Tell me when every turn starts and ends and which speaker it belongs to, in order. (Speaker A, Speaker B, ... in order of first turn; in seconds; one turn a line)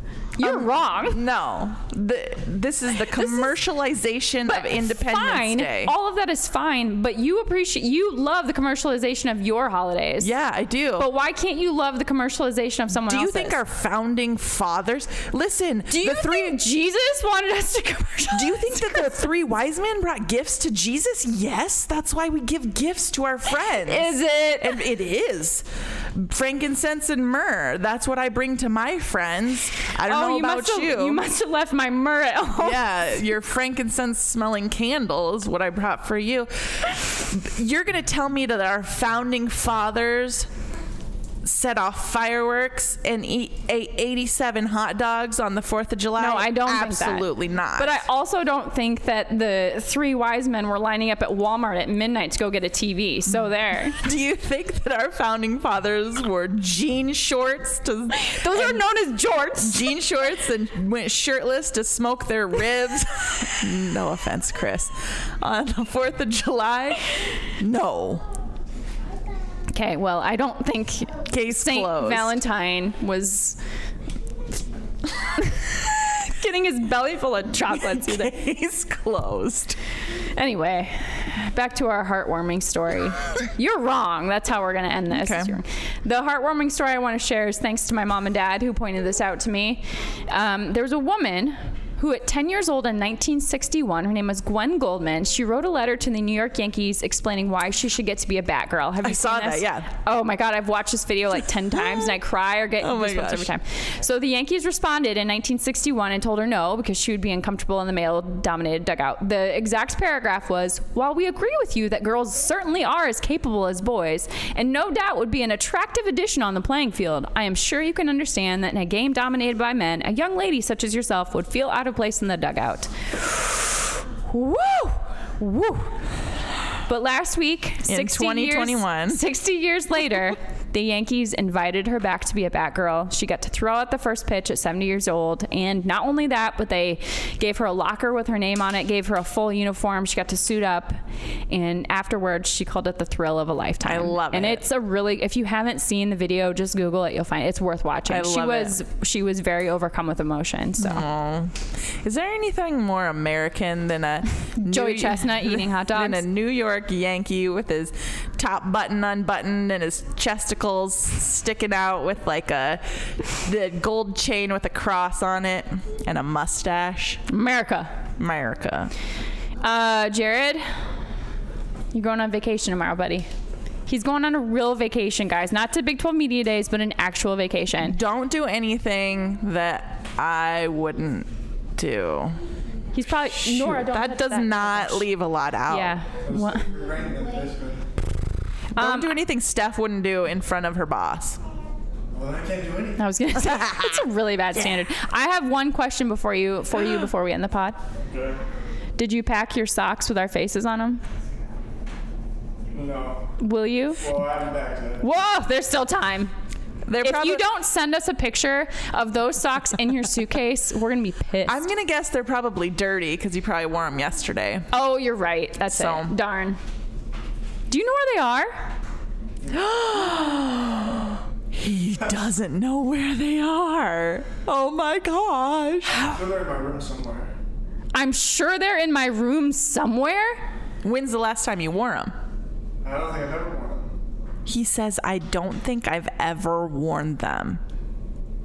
Speaker A: 0.4-1.2
Speaker B: 0.4-5.9
Speaker A: 3.2-3.4
Speaker A: 4.5-10.3
Speaker B: 10.2-11.1
Speaker A: 11.0-13.6
Speaker B: 13.1-16.6
Speaker A: 15.9-19.2
Speaker B: 18.3-31.2
Speaker A: 23.6-24.9
Speaker A: 30.0-32.8
Speaker B: 32.6-40.5
Speaker B: 41.4-48.0
Speaker A: 46.2-54.0
Speaker B: 53.9-58.9
Speaker A: 58.1-59.9
Speaker B: 59.5-68.3
Speaker A: 69.7-73.6
Speaker B: 71.3-72.3
Speaker A: 75.4-78.3
Speaker B: 77.8-79.8
Speaker A: 80.3-126.0
Speaker B: 85.1-85.6
Speaker B: 99.0-99.9
Speaker B: 102.8-103.5
Speaker A: 126.9-141.0
Speaker B: 127.8-129.2
Speaker A: 141.5-151.0
Speaker B: 143.8-144.7
Speaker B: 148.1-148.8
Speaker B: 150.8-167.2
Speaker A: 154.6-156.2
Speaker A: 167.3-167.9
Speaker B: 168.2-168.9
Speaker A: 169.6-170.8
Speaker A: 171.9-173.3
Speaker A: 173.9-178.0
Speaker B: 177.8-182.4
Speaker A: 182.9-185.1
Speaker B: 183.2-186.0
Speaker A: 185.7-186.7
Speaker C: 186.3-187.8
Speaker A: 188.8-189.2
Speaker B: 188.8-191.4
Speaker C: 192.1-193.0
Speaker A: 193.0-197.8
Speaker B: 193.4-194.0
Speaker C: 198.1-198.4
Speaker A: 199.0-201.0
Speaker C: 202.7-203.3
Speaker A: 203.4-204.1
Speaker C: 204.0-205.0
Speaker A: 205.0-206.3
Speaker B: 206.9-207.4
Speaker A: 207.0-211.7
Speaker B: 211.5-214.7
Speaker A: 214.7-216.6
Speaker B: 215.7-216.2
Speaker A: 217.7-218.7
Speaker B: 219.5-226.1
Speaker C: 225.9-227.3
Speaker A: 227.9-230.4
Speaker B: 230.8-232.1
Speaker C: 232.8-233.9
Speaker B: 234.5-237.6